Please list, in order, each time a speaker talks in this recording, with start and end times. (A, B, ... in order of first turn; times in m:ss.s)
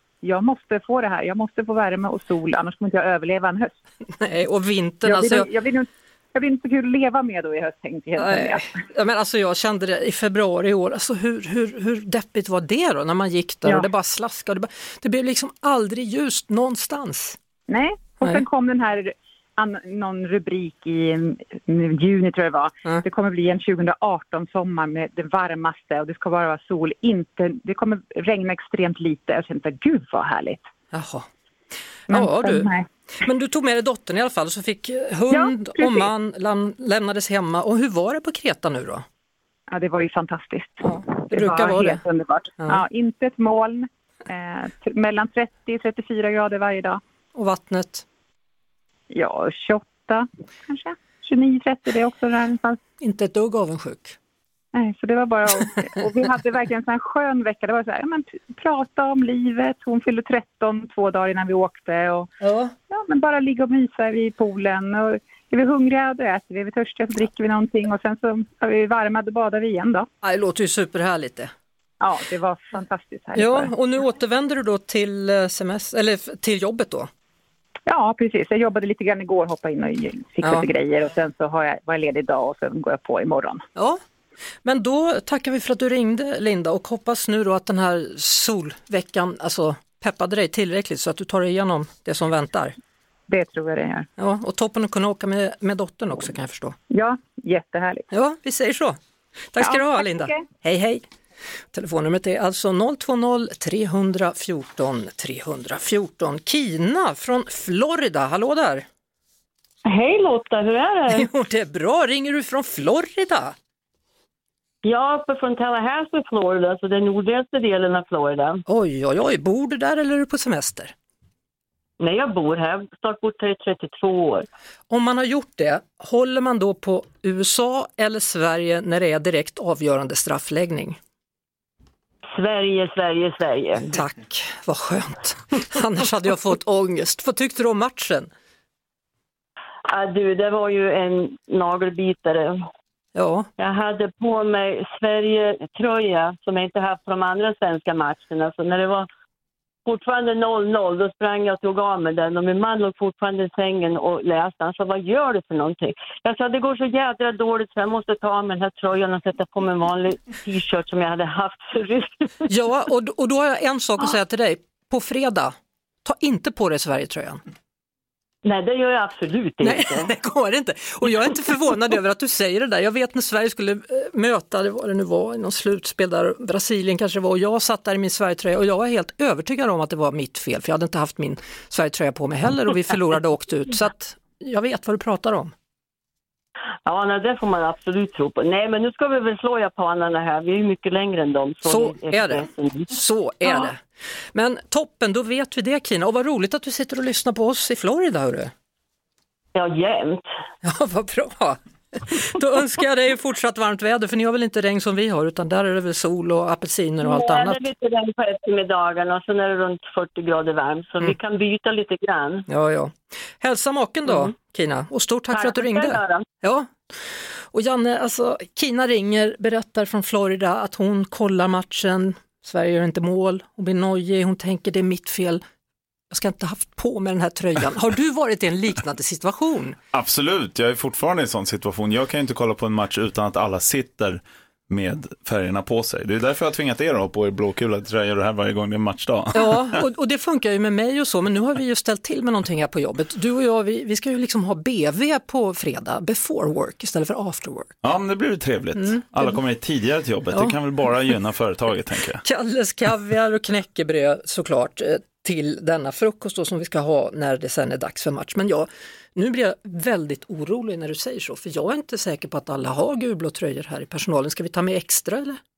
0:00.2-0:03.7 A
0:04.2-0:05.5 B
0:05.0-0:08.6 A
0:08.2-0:17.4 B
0:17.7-0:30.6 A
0:30.9-0:31.3 B
0:32.1-0:39.0 B
0:32.1-0:32.8 A
0:35.3-0:36.1 A
0:39.7-0:47.0 A
0:40.8-0:42.0 B
0:47.3-0:48.0 B
0:49.1-0:52.8 A
0:53.0-0:54.2 B
0:54.7-1:02.3 A
1:02.4-1:02.7 B
1:02.9-1:10.1 A
1:10.2-1:11.5 B
1:12.0-1:13.7 A
1:13.3-1:17.1 B
1:17.9-1:23.6 A
1:24.6-1:32.8 B
1:33.3-1:34.1 A
1:34.2-1:36.8 B
1:36.9-1:38.0 A
1:38.1-1:39.0 B
1:39.5-1:41.0 B
1:39.6-1:40.4 A
1:41.7-1:48.8 B
1:49.8-1:51.3 C
1:51.1-1:53.5 B
1:54.8-1:58.6 C
1:58.7-2:00.9 B
2:02.0-2:04.4 C
2:04.9-2:11.0 B
2:12.3-2:13.9 C
2:13.8-2:18.3 B
2:19.9-2:22.6 C
2:23.1-2:23.5 B
2:23.6-2:29.1 C
2:29.8-2:42.3 C
2:42.5-2:47.4 B
2:48.4-2:50.1 C
2:49.6-3:05.5 B
3:06.8-3:12.9 C
3:11.6-3:13.8 B
3:14.3-3:18.5 B
3:19.5-3:20.2 C
3:20.6-3:27.6 B
3:27.0-3:32.4 C
3:32.5-3:45.4 B
3:35.3-3:36.2 C
3:46.1-3:49.8 B
3:49.9-3:59.8 D
3:59.3-4:07.8 B
4:07.8-4:12.2 D
4:08.8-4:09.4 B
4:10.3-4:10.6 B
4:12.2-4:25.4 B